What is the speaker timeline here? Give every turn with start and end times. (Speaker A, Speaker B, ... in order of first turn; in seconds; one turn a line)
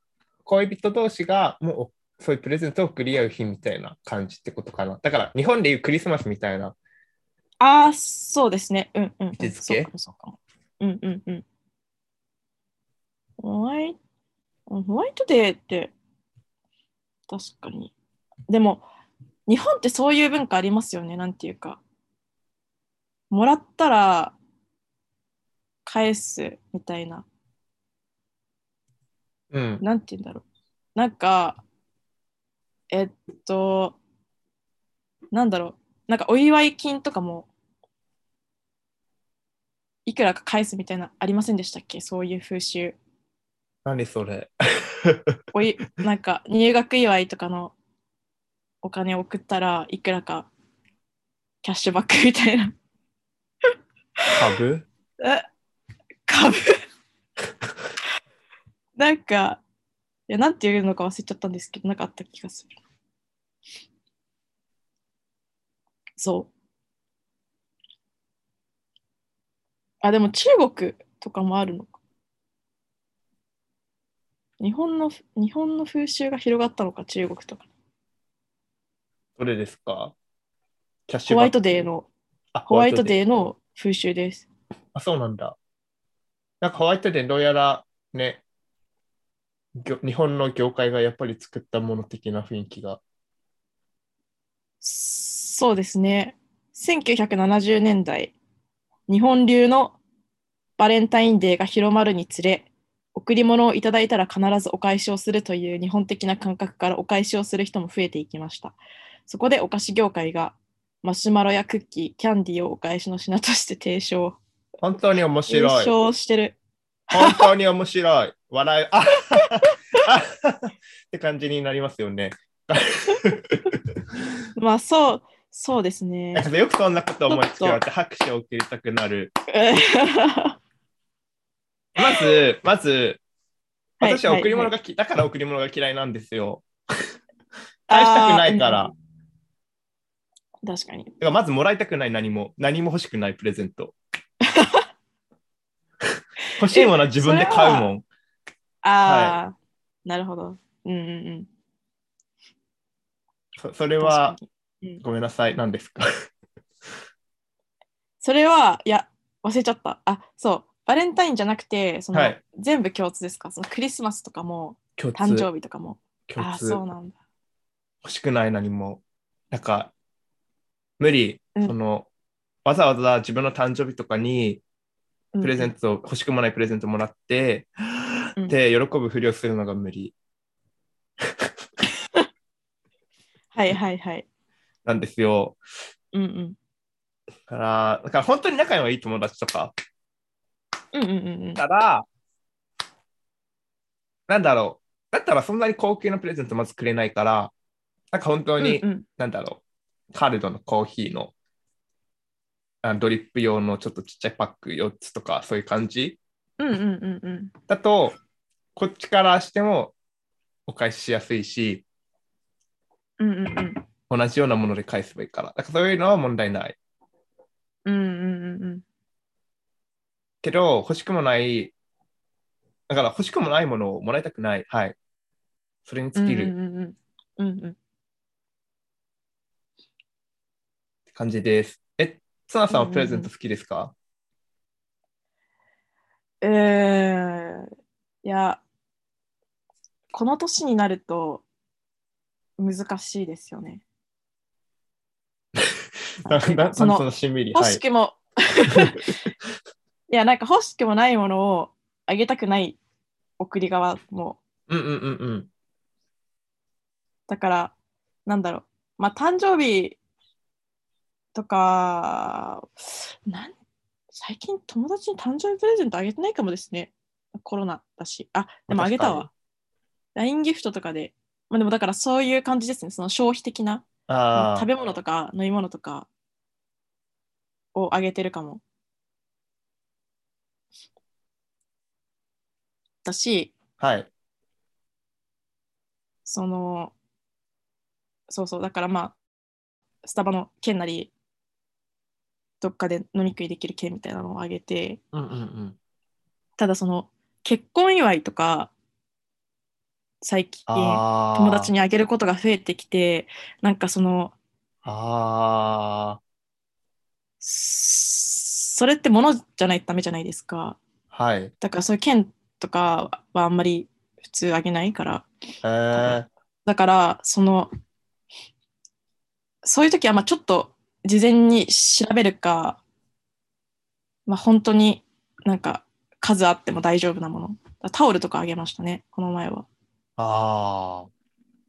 Speaker A: 0.4-6.8
Speaker B: 7.6-11.4
Speaker A: 9.4-9.9
Speaker B: 13.4-14.0
Speaker B: 14.7-15.9
Speaker B: 17.3-17.9
Speaker B: 18.5-18.9
Speaker B: 19.5-21.8
Speaker B: 23.3-24.4
Speaker B: 25.9-27.2
Speaker A: 29.5-29.8
Speaker B: 29.8-30.4
Speaker B: 30.9-31.6
Speaker B: 32.9-34.0
Speaker B: 35.3-37.5
Speaker B: 40.0-43.0
Speaker A: 43.8-45.4
Speaker B: 45.5-47.7
Speaker B: 48.8-50.5
Speaker B: 51.6-52.7
Speaker A: 54.3-54.9
Speaker B: 56.3-56.8
Speaker B: 59.0-59.6
Speaker B: 60.3-62.7
Speaker B: 66.2-66.5
Speaker B: 70.0-72.0
Speaker B: 74.6-77.7
Speaker A: 79.4-80.1
Speaker A: 81.1-81.9
Speaker B: 81.3-82.1
Speaker A: 82.5-83.2
Speaker B: 82.7-84.5
Speaker A: 84.9-85.5
Speaker A: 86.6-88.4
Speaker A: 89.7-93.0
Speaker B: 94.8-98.3
Speaker B: 99.1-100.0
Speaker B: 100.8-114.4
Speaker A: 114.8-115.9
Speaker B: 115.5-116.6
Speaker B: 117.1-117.5
Speaker A: 117.1-124.0
Speaker B: 124.5-126.5
Speaker A: 126.3-129.3
Speaker B: 127.3-127.8
Speaker B: 129.5-130.6
Speaker A: 132.0-133.2
Speaker B: 134.0-134.7
Speaker A: 134.0-136.7
Speaker B: 137.9-138.9
Speaker A: 137.9-138.9
Speaker B: 140.6-141.1
Speaker A: 141.2-143.9
Speaker B: 144.5-144.8
Speaker A: 146.6-148.0
Speaker B: 146.7-147.9
Speaker B: 148.8-151.5
Speaker A: 149.0-149.4
Speaker A: 153.6-154.4
Speaker B: 154.0-155.0
Speaker A: 155.0-156.0
Speaker B: 158.2-167.1
Speaker A: 162.1-162.4
Speaker A: 165.0-165.5
Speaker A: 166.3-166.8
Speaker A: 168.0-169.9
Speaker A: 171.0-172.1
Speaker A: 172.6-174.6
Speaker B: 175.3-175.7
Speaker A: 175.4-177.7
Speaker A: 178.4-180.1
Speaker B: 183.5-184.2
Speaker A: 184.8-185.6
Speaker B: 186.1-186.6
Speaker A: 187.5-189.7
Speaker B: 190.9-191.6
Speaker A: 191.6-192.0
Speaker A: 194.3-197.5
Speaker A: 198.1-199.6
Speaker B: 198.6-199.0
Speaker A: 200.1-201.3
Speaker A: 202.8-206.2
Speaker B: 206.6-207.5
Speaker A: 207.7-208.2
Speaker A: 208.8-209.9
Speaker A: 210.7-211.8
Speaker B: 213.2-213.8
Speaker A: 214.1-216.8
Speaker B: 217.8-218.8
Speaker A: 220.4-221.7
Speaker A: 222.9-224.9
Speaker A: 225.8-226.5
Speaker B: 226.2-227.8
Speaker A: 231.1-233.9
Speaker B: 232.7-233.3
Speaker B: 236.4-237.7
Speaker B: 238.2-238.6
Speaker B: 240.1-241.4
Speaker B: 242.6-243.8
Speaker A: 246.2-247.8
Speaker B: 246.2-249.2
Speaker B: 250.1-252.8
Speaker B: 253.4-254.4
Speaker A: 254.7-255.5
Speaker B: 257.3-257.7
Speaker B: 258.2-260.0
Speaker B: 261.3-263.5
Speaker B: 264.1-269.3
Speaker A: 268.7-269.3
Speaker B: 270.1-276.1
Speaker A: 274.1-274.7
Speaker B: 277.7-278.6
Speaker B: 283.0-283.5
Speaker A: 283.8-284.1
Speaker B: 286.2-286.9
Speaker B: 288.3-289.2
Speaker B: 290.0-291.1
Speaker B: 292.6-295.0
Speaker A: 295.1-295.8
Speaker B: 296.6-298.7
Speaker B: 300.2-304.3
Speaker A: 300.7-301.7
Speaker A: 304.8-306.2
Speaker B: 307.4-310.8
Speaker A: 311.1-311.5
Speaker B: 311.6-315.3
Speaker A: 315.6-316.3
Speaker B: 315.9-317.7
Speaker B: 319.6-322.8
Speaker B: 324.3-329.7
Speaker A: 330.2-331.1